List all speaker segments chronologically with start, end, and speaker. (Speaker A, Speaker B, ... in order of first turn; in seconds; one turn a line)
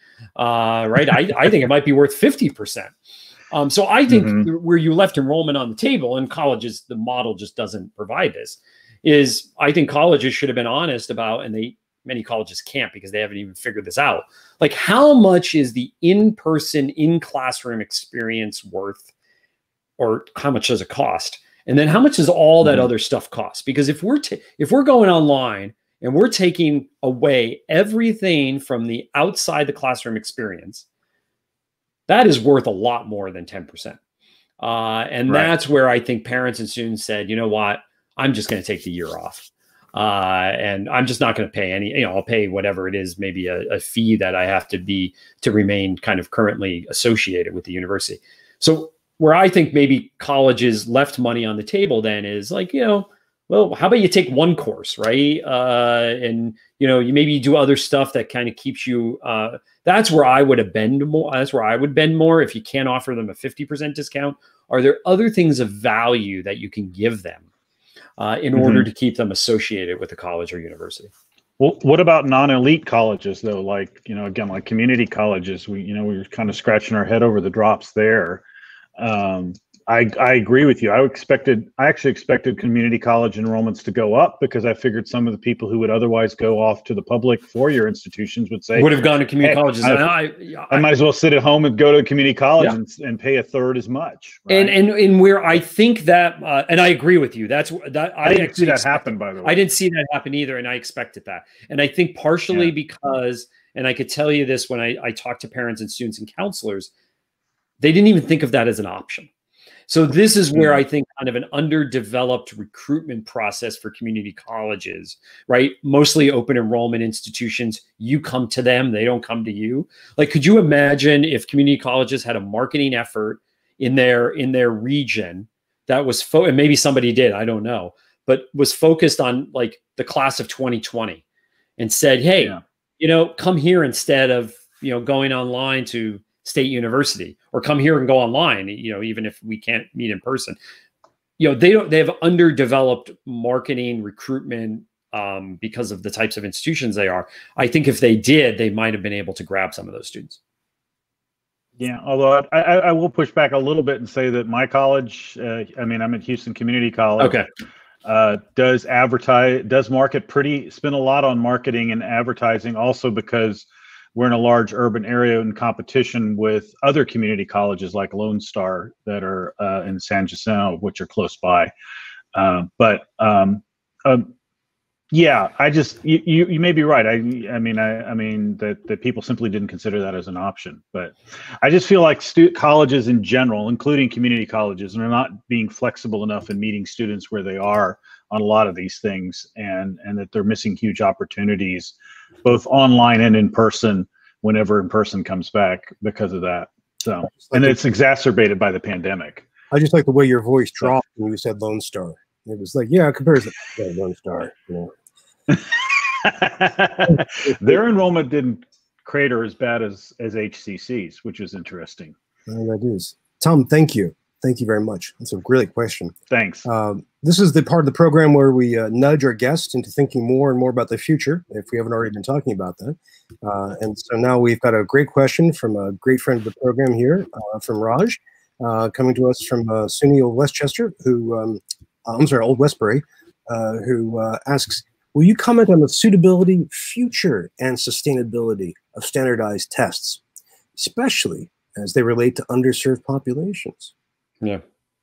Speaker A: 0.4-2.9
Speaker A: 3.5-19.1
Speaker B: 4.1-4.5
Speaker A: 20.0-30.9
Speaker A: 32.1-34.0
Speaker A: 34.6-67.5
Speaker B: 35.3-35.5
Speaker A: 68.2-71.1
Speaker B: 68.5-68.9
Speaker B: 71.6-78.4
Speaker B: 79.0-90.1
Speaker A: 88.8-90.9
Speaker B: 90.7-94.8
Speaker A: 94.5-106.9
Speaker B: 98.2-99.6
Speaker A: 107.8-109.3
Speaker A: 109.9-131.2
Speaker A: 131.8-140.6
Speaker A: 141.4-150.4
Speaker B: 151.8-157.4
Speaker A: 157.2-157.5
Speaker B: 158.1-171.7
Speaker B: 172.3-174.3
Speaker B: 175.1-199.5
Speaker C: 197.4-197.8
Speaker C: 199.7-204.9
Speaker B: 205.5-212.2
Speaker C: 207.1-207.8
Speaker C: 212.5-240.2
Speaker B: 216.3-216.7
Speaker C: 240.8-243.9